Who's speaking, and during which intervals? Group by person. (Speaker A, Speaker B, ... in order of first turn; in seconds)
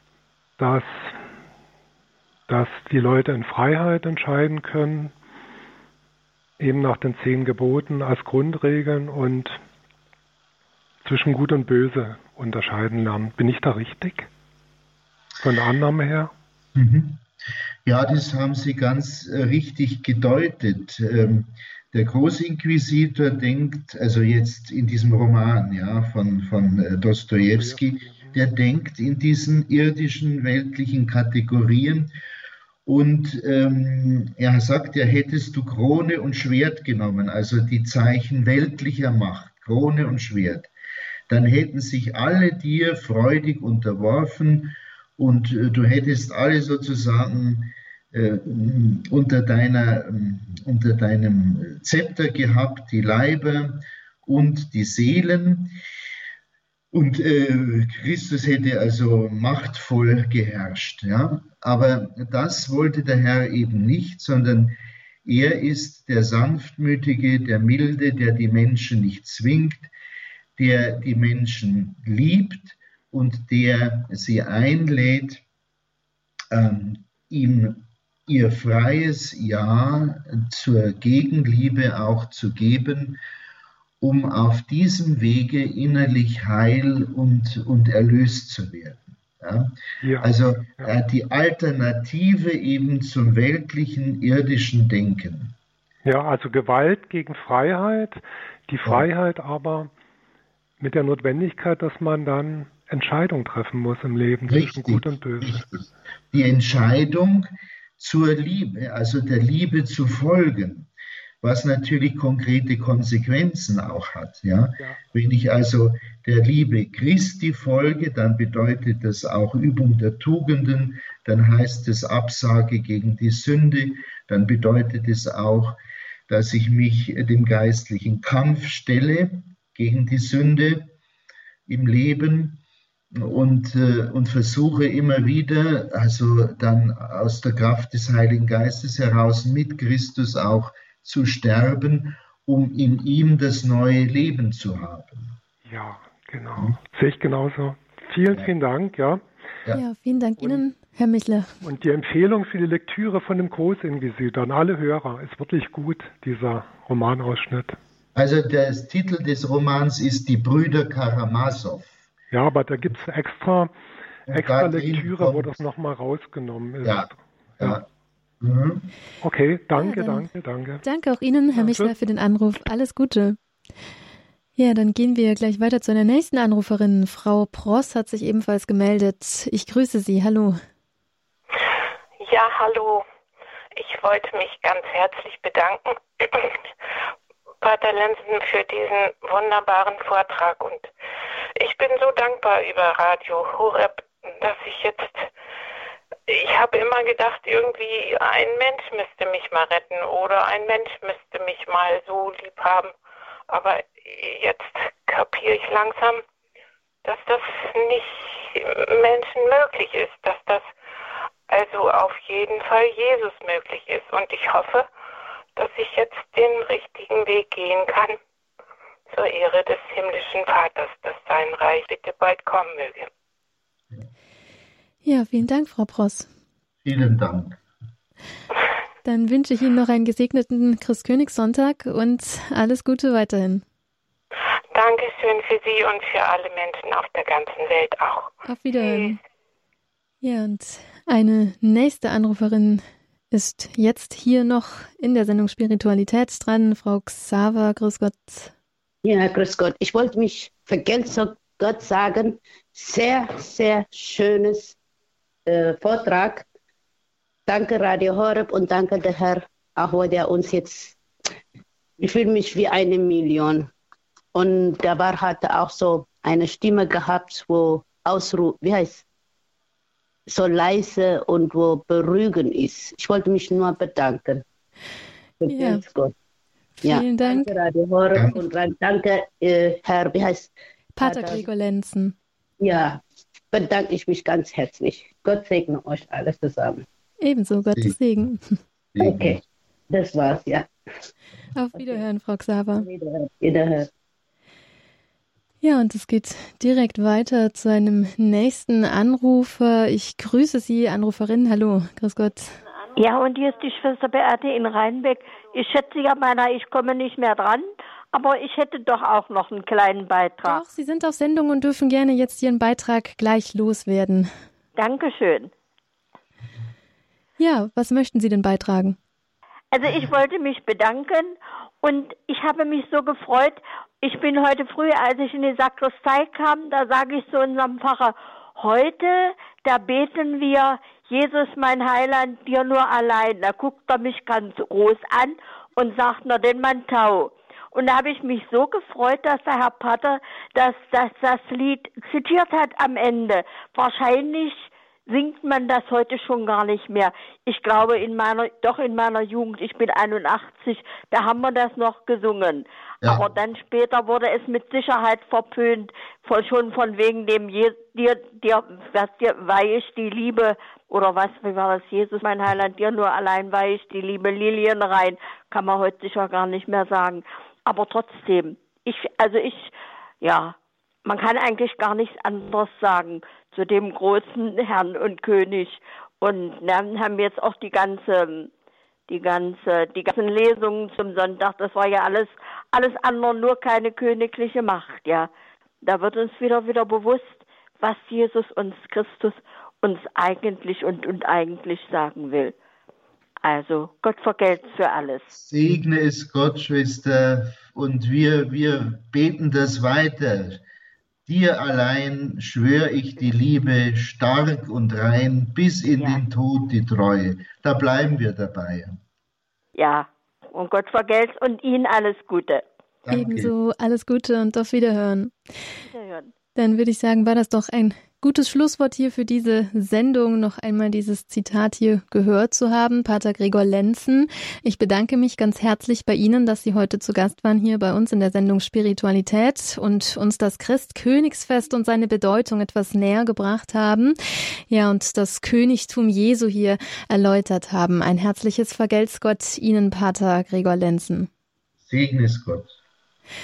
Speaker A: 0.6-0.9, 2.5-5.1, 6.6-9.6, 11.0-14.3, 15.4-16.3, 27.5-28.4, 90.0-90.9, 96.0-99.9, 100.8-105.7, 145.7-149.2, 151.6-157.8, 162.3-163.7, 164.3-167.8, 169.2-170.8, 171.5-171.9
Speaker B: 16.7-17.2, 17.8-32.1, 32.8-40.7, 41.3-55.7, 56.9-69.9, 70.6-75.4, 76.5-83.2, 84.0-95.5, 104.5-110.9, 111.4-125.8, 126.3-130.9, 131.7-132.6, 133.1-145.4, 158.2-162.0, 164.3-165.6, 166.8-167.8, 168.4-168.9, 226.8-227.6, 278.1-278.4, 288.9-289.4, 353.0-353.3, 395.3-400.6, 401.3-409.0, 413.0-413.5, 441.8-442.8
Speaker C: 149.7-151.5, 169.8-170.3, 170.8-173.4, 174.6-180.6, 225.0-226.3, 229.0-233.6, 238.4-239.2, 240.2-248.5, 275.5-275.8, 276.8-277.5, 280.9-282.1, 287.2-288.6, 291.5-292.9, 295.6-302.6, 310.4-314.3, 317.4-319.0, 413.1-415.3, 416.5-434.1, 434.7-441.3
Speaker D: 182.2-183.0, 183.7-186.6, 187.6-190.9, 191.6-195.3, 196.3-202.9, 203.5-206.2, 207.0-210.7, 211.5-214.9, 215.6-218.2, 219.1-223.1, 234.7-239.2
Speaker E: 249.0-254.8, 255.5-256.5, 257.5-261.0, 262.0-263.7, 264.3-269.0, 270.3-274.4, 275.4-276.1, 276.8-280.5, 281.0-281.4, 282.6-286.9, 289.0-289.4, 289.9-290.7, 292.7-293.9
Speaker F: 302.9-310.6, 314.8-315.5, 319.7-378.5, 379.1-385.3, 385.8-392.6, 393.4-395.4, 406.0-406.2, 409.8-412.6, 415.8-416.3